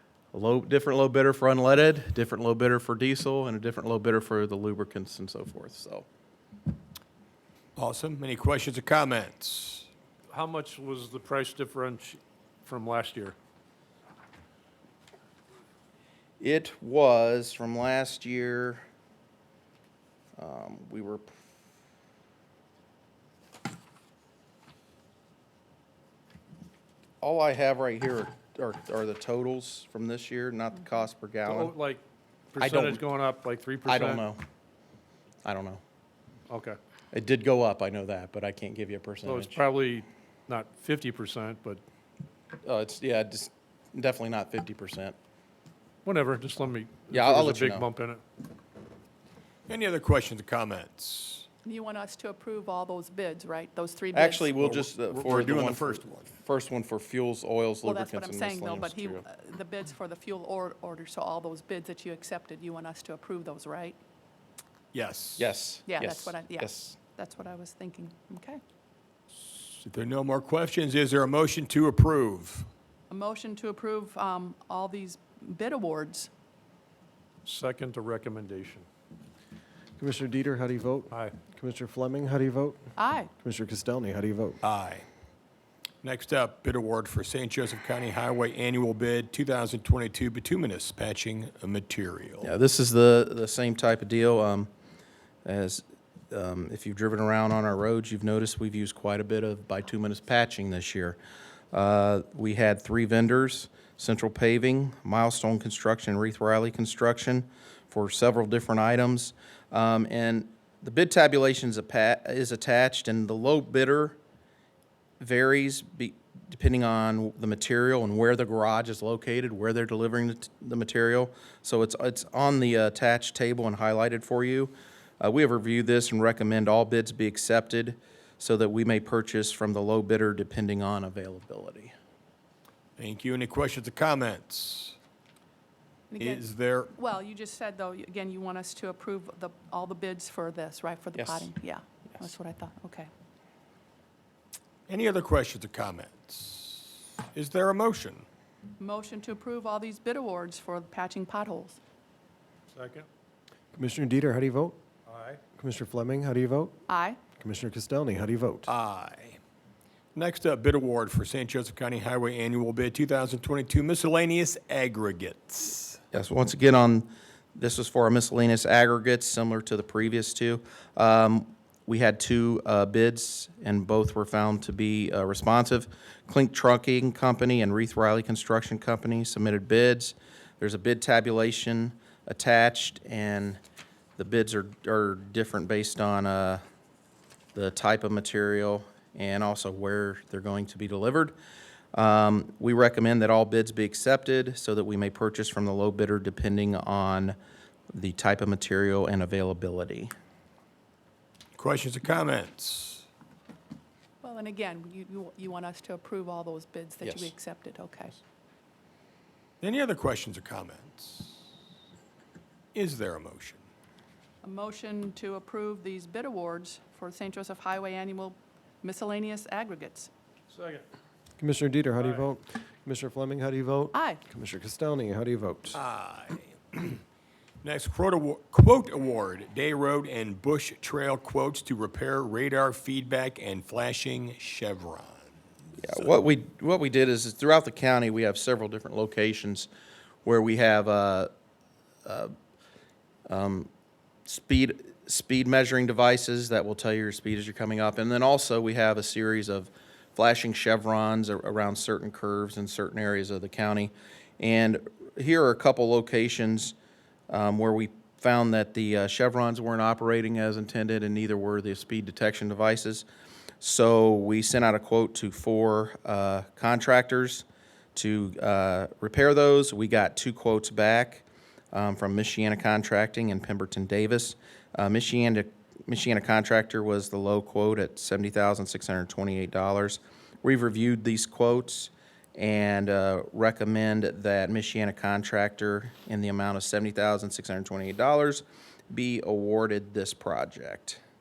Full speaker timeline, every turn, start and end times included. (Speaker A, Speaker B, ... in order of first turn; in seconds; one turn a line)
Speaker A: 0.3-6.0
Speaker B: 7.8-9.9
Speaker C: 10.3-13.3
Speaker A: 16.4-18.8
Speaker A: 20.4-21.3
Speaker A: 27.2-31.7
Speaker C: 31.4-32.0
Speaker C: 32.5-34.2
Speaker A: 32.6-33.0
Speaker A: 33.8-34.4
Speaker A: 35.4-35.8
Speaker C: 36.5-36.8
Speaker A: 37.1-39.6
Speaker C: 39.2-41.8
Speaker A: 42.6-45.1
Speaker C: 46.0-48.2
Speaker A: 47.1-47.9
Speaker B: 49.7-51.5
Speaker D: 51.6-54.5
Speaker A: 54.1-59.2
Speaker B: 54.6-56.3
Speaker D: 57.8-64.0
Speaker B: 64.9-65.5
Speaker A: 65.4-67.0
Speaker D: 65.9-68.6
Speaker B: 69.5-72.7
Speaker D: 73.1-76.3
Speaker C: 77.5-78.8
Speaker E: 80.0-82.8
Speaker D: 83.0-83.3
Speaker E: 83.4-84.6
Speaker B: 84.6-85.0
Speaker B: 86.0-92.5
Speaker A: 92.4-94.7
Speaker A: 95.4-101.2
Speaker A: 101.7-114.2
Speaker A: 115.2-131.9
Speaker B: 133.0-134.9
Speaker D: 136.1-143.1
Speaker B: 136.2-136.9
Speaker A: 141.2-141.5
Speaker B: 144.9-148.2
Speaker D: 148.8-151.8
Speaker C: 152.7-153.1
Speaker E: 153.7-154.8
Speaker C: 155.1-155.4
Speaker E: 155.5-156.8
Speaker D: 156.9-157.2
Speaker E: 157.4-158.7
Speaker B: 158.7-159.4
Speaker B: 160.1-166.0
Speaker A: 166.1-183.6
Speaker A: 184.2-186.6
Speaker A: 187.5-191.3
Speaker A: 191.9-197.3
Speaker A: 197.9-200.1
Speaker B: 201.6-203.0
Speaker D: 204.2-208.2
Speaker A: 207.0-207.3
Speaker B: 209.6-211.5
Speaker B: 212.7-213.6
Speaker D: 214.4-220.1
Speaker C: 220.5-220.8
Speaker E: 221.4-225.8
Speaker D: 223.9-224.2
Speaker B: 225.7-227.0
Speaker B: 227.6-235.3
Speaker A: 235.8-239.7
Speaker A: 240.2-241.3
Speaker A: 242.0-242.3
Speaker A: 243.3-243.7
Speaker A: 244.3-256.7
Speaker A: 257.3-263.0
Speaker A: 263.6-267.4
Speaker A: 267.9-291.0